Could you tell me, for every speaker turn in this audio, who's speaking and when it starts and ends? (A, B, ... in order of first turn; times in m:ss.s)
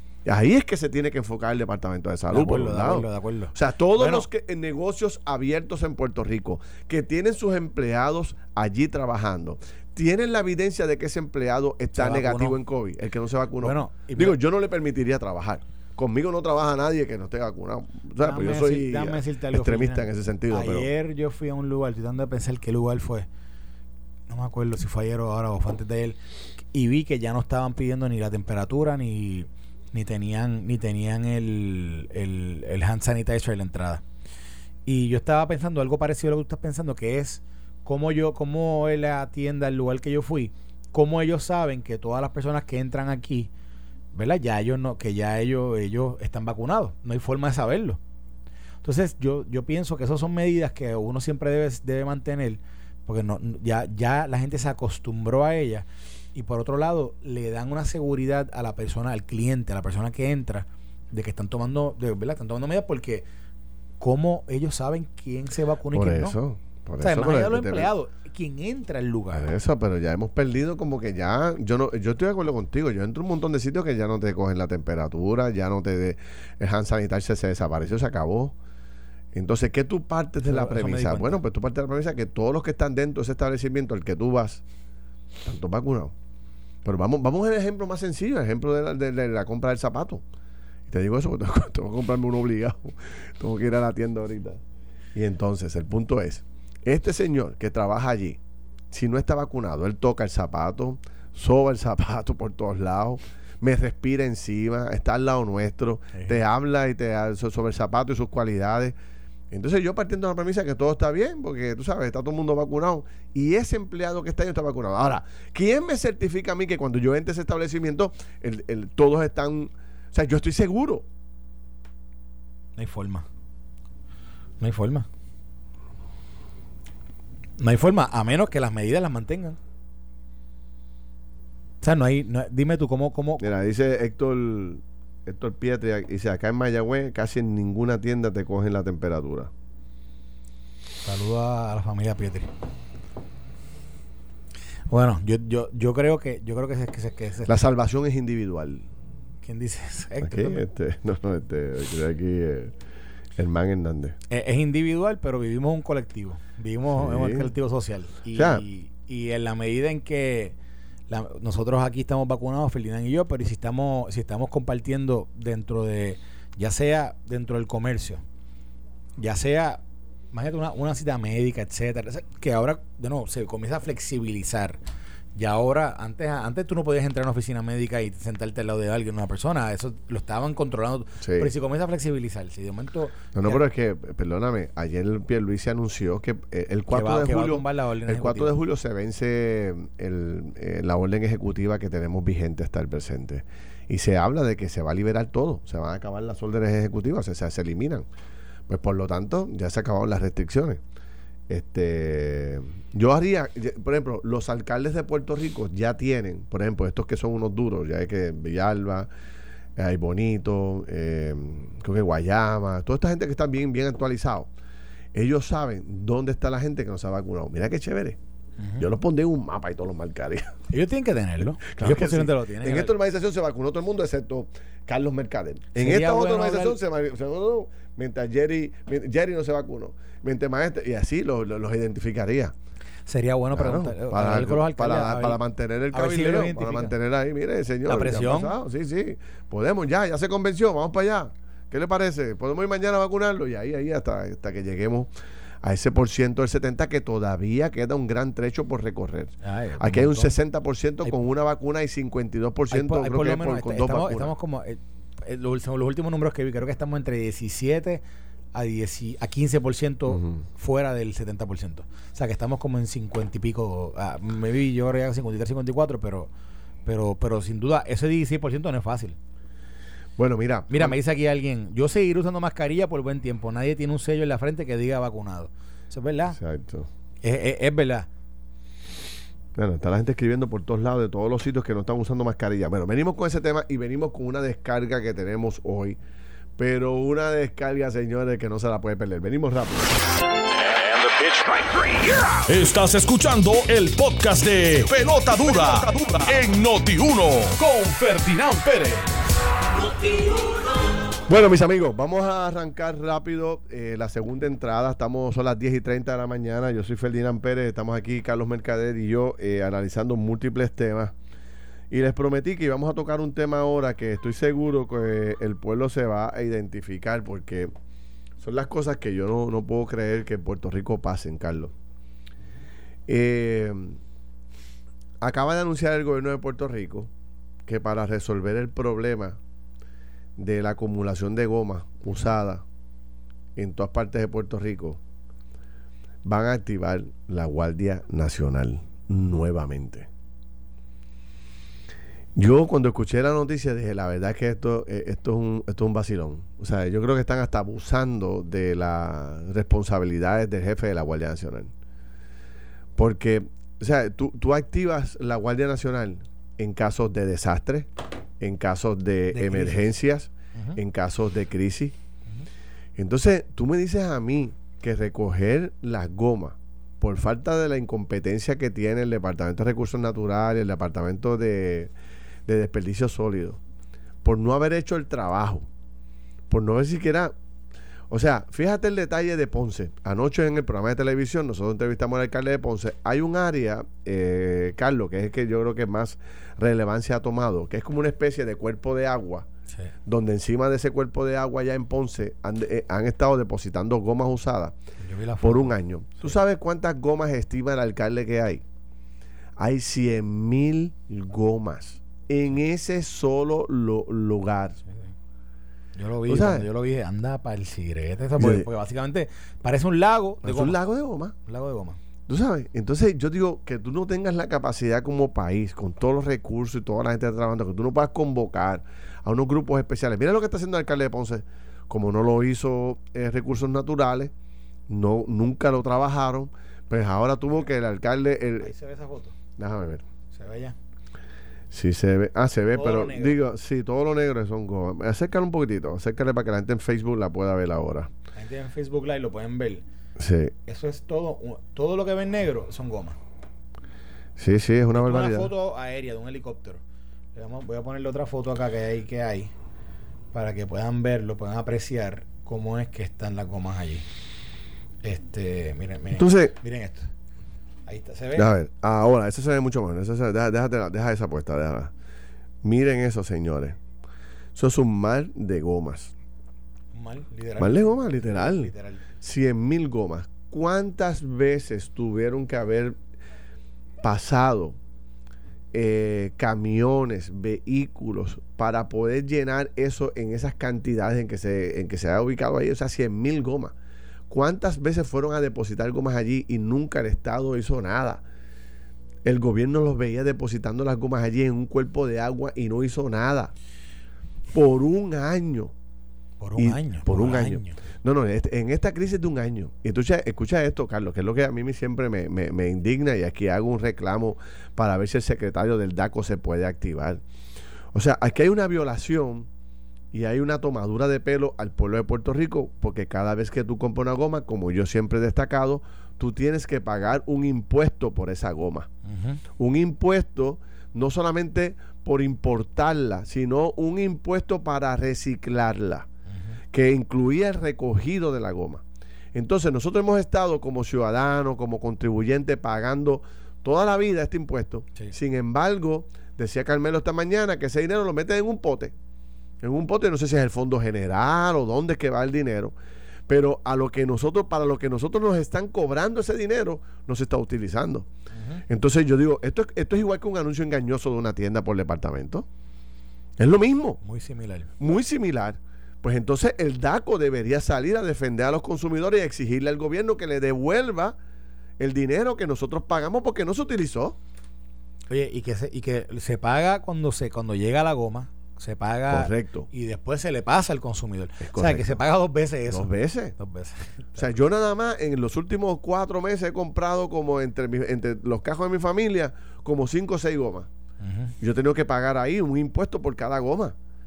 0:00.2-0:20.9 A
0:02.3-0:04.2 B
0:12.0-0:12.6 B
0:13.6-0:14.4 B
0:18.2-0:23.3 B
0:24.3-0:26.2 B
0:26.7-0:34.0 B
0:34.9-0:43.5 B
0:44.1-0:48.0 B
0:48.8-1:03.2 B
1:04.0-1:06.4 B
1:05.9-1:07.9 A
1:07.0-1:09.5 B
1:09.3-1:18.6 A
1:19.3-1:24.6 A
1:20.4-1:21.4 B
1:25.4-1:26.1 A
1:26.8-1:30.2 A
1:30.9-1:34.6 A
1:35.1-1:38.4 A
1:38.9-1:49.0 A
1:49.5-2:01.1 A
2:02.8-2:03.2 B
2:04.6-2:05.1 B
2:07.6-2:09.6 B
2:11.8-2:13.4 B
2:13.4-2:19.5 A
2:21.0-2:22.5 B
2:24.9-2:27.6 B
2:27.5-2:28.9 A
2:29.4-2:30.6 B
2:30.2-2:32.7 A
2:33.4-2:34.2 A
2:34.3-2:40.6 B
2:36.9-2:37.5 A
2:38.3-2:38.6 A
2:41.1-2:48.2 B
2:49.2-2:49.8 B
2:50.3-2:54.8 B
2:55.4-3:03.6 B
3:01.2-3:01.5 A
3:03.4-3:18.0 A
3:06.9-3:08.5 B
3:18.7-3:20.8 A
3:21.5-3:29.1 A
3:29.8-3:34.5 A
3:35.1-3:38.2 A
3:38.6-3:38.9 B
3:38.8-3:40.5 A
3:40.7-3:42.9 B
3:41.6-3:52.5 A
3:45.8-3:46.8 B
3:53.1-3:55.4 B
3:53.5-4:05.1 A
3:55.9-3:57.0 B
3:57.9-3:58.5 B
4:05.6-4:14.3 A
4:09.4-4:10.4 B
4:12.7-4:18.0 B
4:18.5-4:26.3 B
4:26.8-4:29.2 B
4:30.2-4:31.0 A
4:30.7-4:36.4 B
4:36.4-4:36.9 A
4:37.2-4:38.1 B
4:39.6-4:46.0 A
4:46.6-4:49.9 A
4:50.9-4:59.1 C
5:01.3-5:11.1 A
5:11.9-5:17.7 A
5:18.4-5:21.7 A
5:23.1-5:24.0 A
5:25.2-5:27.1 A
5:27.7-5:29.4 A
5:30.4-5:32.6 A
5:33.6-5:35.0 A
5:36.2-5:40.1 A
5:42.4-5:51.7 A
5:53.0-6:01.9 A
5:59.3-5:59.9 B
6:03.0-6:11.9 A
6:12.5-6:13.6 A
6:14.2-6:15.7 A
6:16.5-6:17.3 A
6:18.1-6:29.5 A
6:30.0-6:34.8 A
6:35.0-6:36.3 B
6:35.4-6:38.6 A
6:39.6-6:44.8 A
6:46.0-6:50.8 B
6:46.3-6:46.7 A
6:48.4-6:48.7 A
6:50.4-6:51.3 A
6:51.5-6:52.0 B
6:52.3-7:04.3 A
7:04.9-7:08.7 A
7:08.6-7:09.4 B
7:09.6-7:10.0 A
7:10.3-7:10.8 B
7:11.7-7:18.1 A
7:12.7-7:13.4 B
7:18.4-7:19.8 B
7:20.2-7:20.5 A
7:20.7-7:23.2 B
7:24.4-7:25.5 A
7:24.9-7:26.8 B
7:27.4-7:29.5 B
7:30.3-7:34.1 B
7:35.0-7:37.1 B
7:36.2-7:36.5 A
7:37.9-7:38.5 B
7:38.4-7:41.9 A
7:42.6-7:43.8 A
7:44.5-7:46.1 A
7:46.9-7:49.0 B
7:47.6-7:53.0 A
7:54.0-7:54.8 A
7:55.7-8:03.7 A
8:04.3-8:08.2 A
8:09.2-8:13.5 A
8:14.5-8:15.7 A
8:16.4-8:17.8 B
8:16.6-8:27.2 A
8:27.9-8:29.5 A
8:30.1-8:38.9 A
8:39.0-8:39.4 B
8:39.6-8:46.1 A
8:46.7-8:48.8 A
8:49.3-8:58.9 A
8:59.6-9:02.7 A
9:03.3-9:08.1 A
9:08.3-9:08.6 B
9:08.7-9:12.5 A
9:13.4-9:14.0 A
9:14.0-9:14.7 B
9:14.8-9:21.2 A
9:21.8-9:24.2 A
9:25.1-9:34.3 B
9:29.1-9:29.7 A
9:31.4-9:32.0 A
9:32.7-9:33.4 A
9:34.2-9:40.7 A
9:41.0-9:41.3 B
9:41.4-9:43.8 A